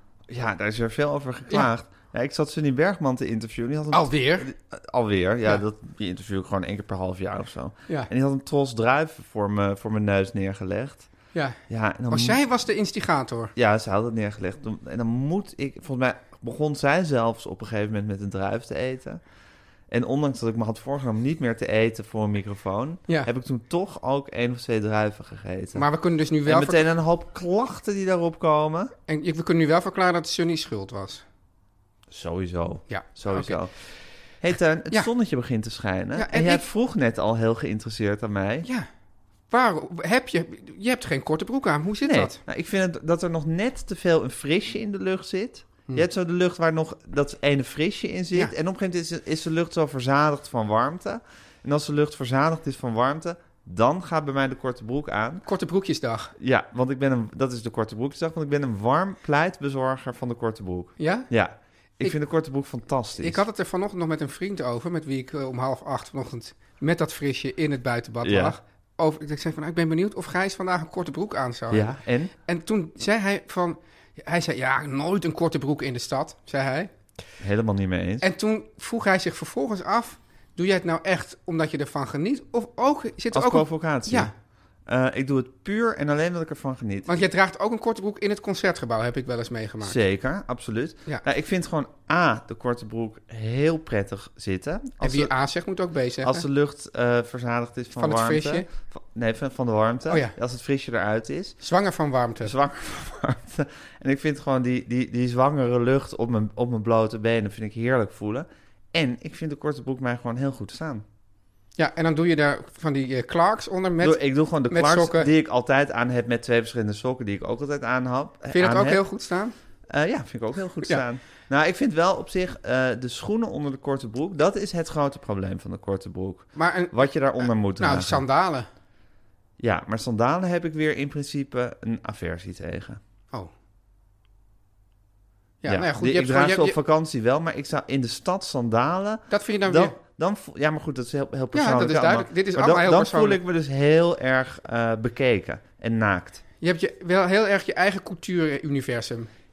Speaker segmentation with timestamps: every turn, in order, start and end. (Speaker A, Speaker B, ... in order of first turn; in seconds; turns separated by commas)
Speaker A: 0.3-11.1, Speaker B: 3.9-4.5, Speaker A: 11.7-12.4, Speaker B: 12.1-13.5, Speaker A: 13.6-19.2, Speaker A: 19.9-25.9, Speaker B: 25.7-26.9, Speaker A: 26.4-28.9, Speaker B: 29.1-31.2, Speaker A: 32.1-33.7, Speaker B: 32.9-33.6, Speaker A: 34.4-38.7, Speaker B: 36.1-36.6, Speaker B: 39.5-42.4, Speaker A: 42.0-55.4, Speaker B: 55.4-56.3, Speaker A: 56.4-63.4, Speaker B: 61.0-61.3, Speaker B: 63.2-76.9, Speaker A: 68.2-68.6, Speaker A: 71.7-72.3, Speaker A: 77.4-78.3, Speaker B: 78.2-84.3, Speaker A: 83.3-84.3, Speaker A: 84.9-87.1, Speaker B: 87.0-90.0, Speaker A: 89.8-95.3, Speaker B: 95.0-96.4, Speaker A: 96.2-101.6, Speaker B: 98.0-98.7, Speaker B: 100.1-100.3, Speaker B: 101.6-102.5, Speaker A: 102.4-111.0, Speaker B: 111.8-115.3, Speaker A: 114.0-119.0, Speaker B: 118.5-119.5, Speaker A: 119.9-128.2, Speaker B: 126.5-128.7, Speaker A: 129.6-133.0, Speaker B: 135.6-136.8, Speaker A: 135.7-146.4, Speaker B: 139.3-140.0, Speaker B: 141.5-143.4, Speaker B: 146.6-149.3